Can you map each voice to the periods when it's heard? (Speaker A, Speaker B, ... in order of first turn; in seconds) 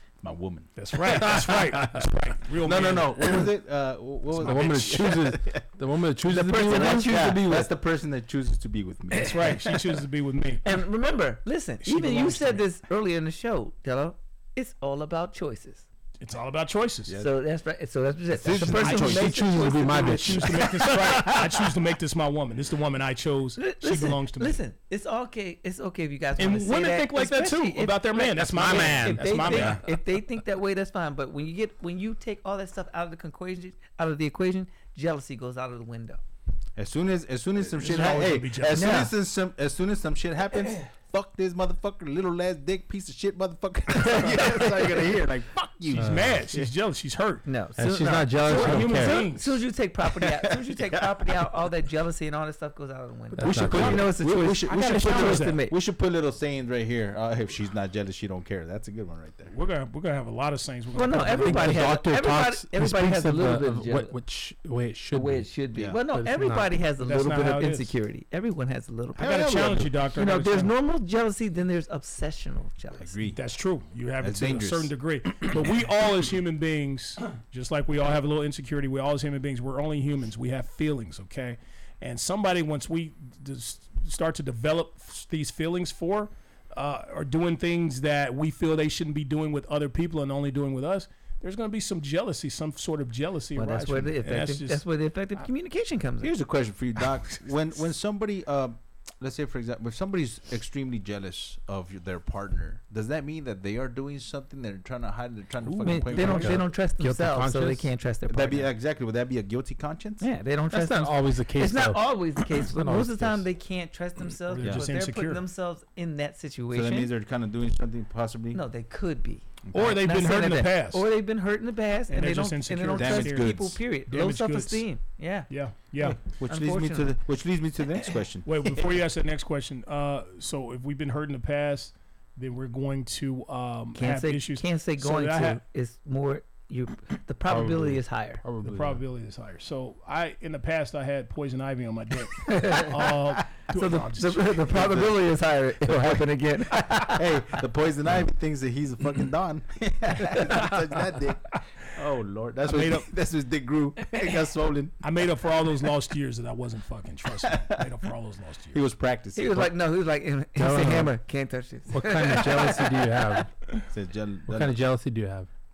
Speaker A: 0.2-1.3, 2.6-5.6, 6.3-9.8, 18.3-19.4, 29.4-29.8, 36.8-46.7, 50.1-51.5, 53.4-59.5, 65.7-66.0, 69.2-69.9, 73.0-73.4, 74.2-74.9, 96.2-106.6, 108.3-110.2, 114.6-114.9, 116.7-118.6, 119.6-120.1, 122.9-123.8, 126.0-128.9, 144.7-145.3, 146.9-154.9, 157.5-157.9, 158.7-159.7, 163.9-164.8
Speaker B: 0.8-3.5, 9.2-10.8, 11.8-12.6, 16.2-17.2, 18.8-24.6, 26.4-29.8, 37.7-39.1, 45.9-47.5, 48.4-49.6, 54.7-55.6, 59.5-61.9, 67.0-67.9, 69.2-70.7, 73.3-94.8, 105.6-106.5, 114.5-115.4, 119.7-121.0, 122.1-124.8, 125.5-126.2, 128.4-135.6, 138.6-145.0, 152.7-153.1, 155.0-158.8
Speaker C: 1.4-2.0, 4.4-7.3, 18.6-21.5, 28.4-29.4, 46.0-46.2, 47.8-49.2, 53.4-54.1, 61.1-65.5, 66.1-66.7, 106.3-107.9, 110.7-113.4, 137.5-139.0, 160.6-161.2, 161.9-163.5, 164.5-165.5
Speaker D: 6.3-7.7, 10.6-15.9, 17.2-20.9, 23.6-36.2, 38.7-39.1, 44.0-45.1, 47.5-55.8, 60.9-64.2, 65.1-69.5, 70.2-73.2, 93.5-96.3, 105.8-108.7, 110.2-117.1, 118.5-125.5, 126.5-127.1, 133.9-138.4, 142.4-147.3, 159.3-163.0